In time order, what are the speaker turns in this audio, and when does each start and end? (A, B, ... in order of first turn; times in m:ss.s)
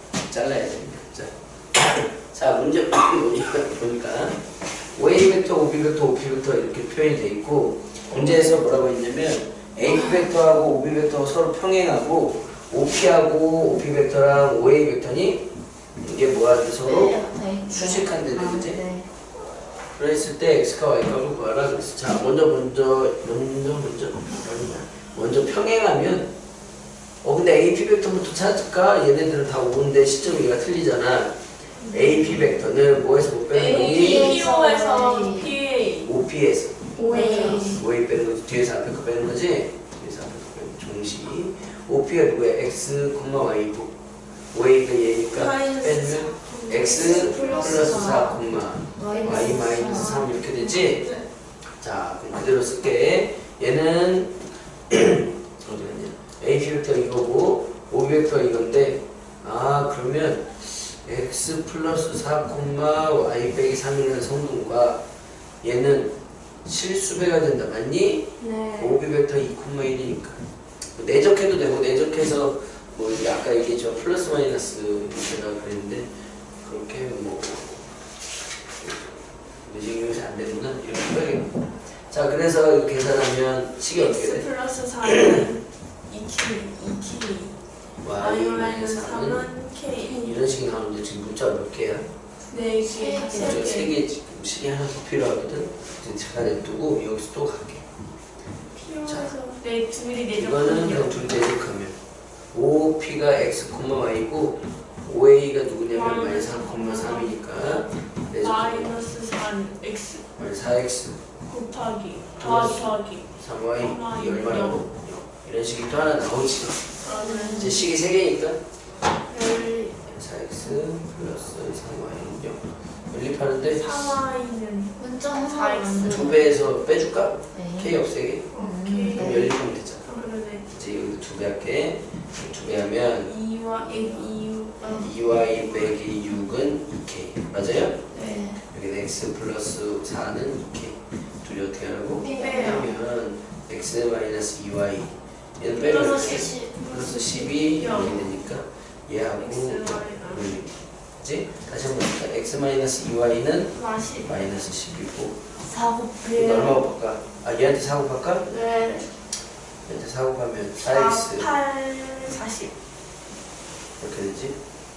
0:00.3-0:15.4 A
0:16.0-0:18.8 A
0:16.8-0:19.1 B
0:19.9-0:26.3 A
0:27.2-0:34.4 A
0:33.5-0:36.1 C
0:33.7-0:35.5 B
0:36.0-0:43.9 A
0:36.9-0:37.8 C
0:37.1-0:37.8 B
0:44.5-0:51.0 A
0:45.3-0:48.1 C
0:46.9-0:48.4 B
0:48.9-0:50.2 B
0:49.2-0:51.2 C
0:51.8-1:05.0 A
1:05.6-1:10.4 A
1:08.4-1:08.9 C
1:10.9-1:16.1 A
1:16.6-1:17.9 A
1:18.8-1:24.5 A
1:23.9-1:27.6 C
1:28.0-1:32.1 A
1:28.2-1:30.4 C
1:32.5-1:33.9 C
1:32.8-1:33.6 B
1:33.3-1:37.8 A
1:38.7-1:41.1 C
1:39.0-1:39.4 A
1:40.3-1:42.0 A
1:42.5-1:49.0 A
1:45.9-1:50.2 C
1:50.4-1:51.2 A
1:51.4-1:54.9 C
1:52.4-1:57.0 A
1:57.0-1:57.8 C
1:57.1-1:57.8 B
1:57.5-1:58.6 A
1:59.3-1:59.9 C
2:00.1-2:04.2 A
2:03.7-2:06.4 C
2:05.0-2:06.5 B
2:06.0-2:08.5 A
2:07.5-2:07.9 B
2:08.5-2:09.4 C
2:08.6-2:09.5 B
2:09.1-2:10.1 A
2:10.0-2:10.7 C
2:10.6-2:13.3 A
2:13.1-2:15.9 C
2:14.8-2:15.1 B
2:14.9-2:18.0 A
2:18.1-2:18.6 B
2:18.6-2:35.4 A
2:22.2-2:22.9 B
2:22.2-2:22.9 C
2:25.7-2:28.3 C
2:26.3-2:26.7 B
2:29.4-2:30.6 C
2:33.7-2:34.3 C
2:35.6-2:36.8 B
2:36.3-2:38.5 A
2:38.5-2:39.1 C
2:39.8-2:41.5 A
2:40.8-2:42.7 C
2:44.0-2:44.6 A